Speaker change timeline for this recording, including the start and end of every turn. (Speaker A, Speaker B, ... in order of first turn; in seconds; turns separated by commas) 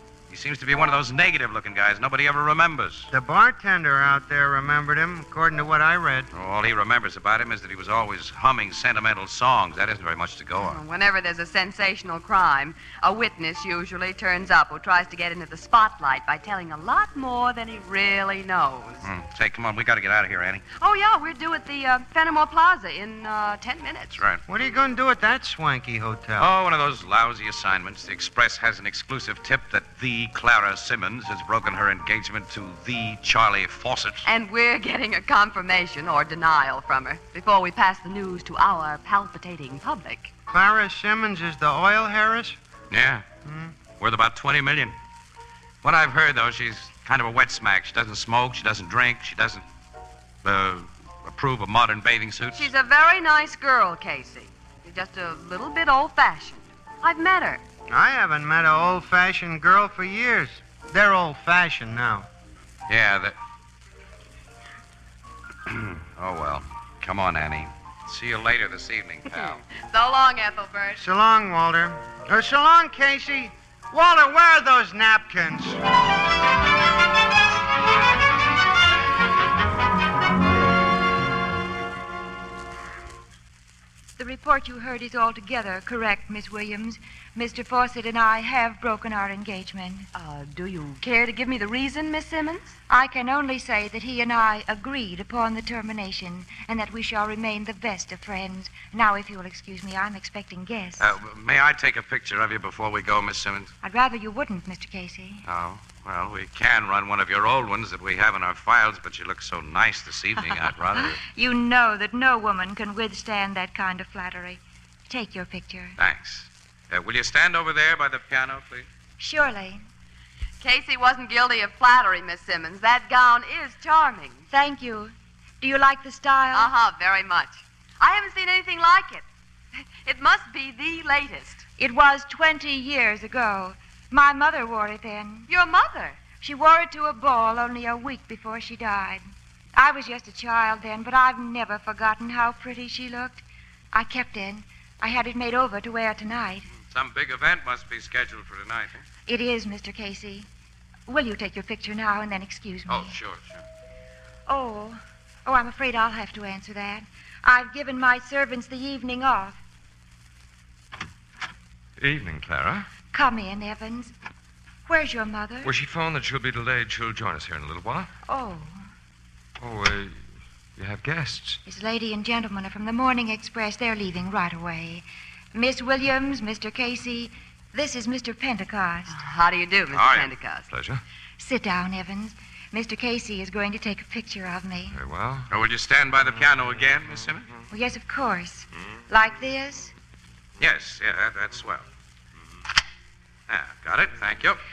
Speaker A: 0.3-3.1, Speaker B: 3.1-6.3, Speaker A: 6.3-10.8, Speaker C: 10.6-19.1, Speaker A: 19.0-20.6, Speaker C: 20.8-24.2, Speaker A: 24.1-24.4, Speaker B: 24.5-26.5, Speaker A: 26.4-34.2, Speaker C: 34.2-40.3, Speaker B: 40.5-42.6, Speaker A: 42.9-43.2, Speaker B: 43.5-43.7, Speaker A: 43.9-45.0, Speaker A: 45.8-49.6, Speaker A: 50.4-52.7, Speaker C: 52.5-57.6, Speaker B: 57.9-62.3, Speaker A: 62.9-63.3, Speaker A: 65.7-69.6, Speaker C: 69.3-71.0, Speaker B: 71.0-75.8, Speaker D: 84.2-90.1, Speaker C: 90.1-92.8, Speaker D: 92.9-101.0, Speaker A: 101.0-103.7, Speaker D: 103.8-105.4, Speaker A: 105.5-111.2, Speaker D: 111.2-116.0, Speaker A: 116.0-118.9, Speaker D: 119.2-119.8, Speaker C: 120.6-124.4, Speaker D: 124.5-126.7, Speaker C: 126.5-129.2, Speaker C: 130.0-131.6, Speaker D: 131.8-135.5, Speaker C: 135.5-136.2, Speaker D: 136.3-139.2, Speaker D: 139.7-146.7, Speaker A: 146.8-149.0, Speaker D: 149.3-150.5, Speaker D: 151.1-153.2, Speaker A: 152.9-153.6, Speaker D: 154.5-159.6, Speaker E: 162.0-162.9, Speaker D: 163.1-164.1, Speaker D: 164.8-165.7, Speaker E: 165.6-168.1, Speaker D: 168.2-168.8, Speaker E: 169.6-170.2, Speaker E: 170.8-171.6, Speaker D: 171.6-179.1, Speaker C: 179.1-180.7, Speaker A: 179.9-180.3, Speaker E: 180.7-181.0, Speaker D: 181.4-184.9, Speaker E: 184.9-185.5, Speaker A: 185.5-187.5, Speaker D: 187.7-189.9, Speaker A: 190.6-191.8, Speaker A: 193.5-194.6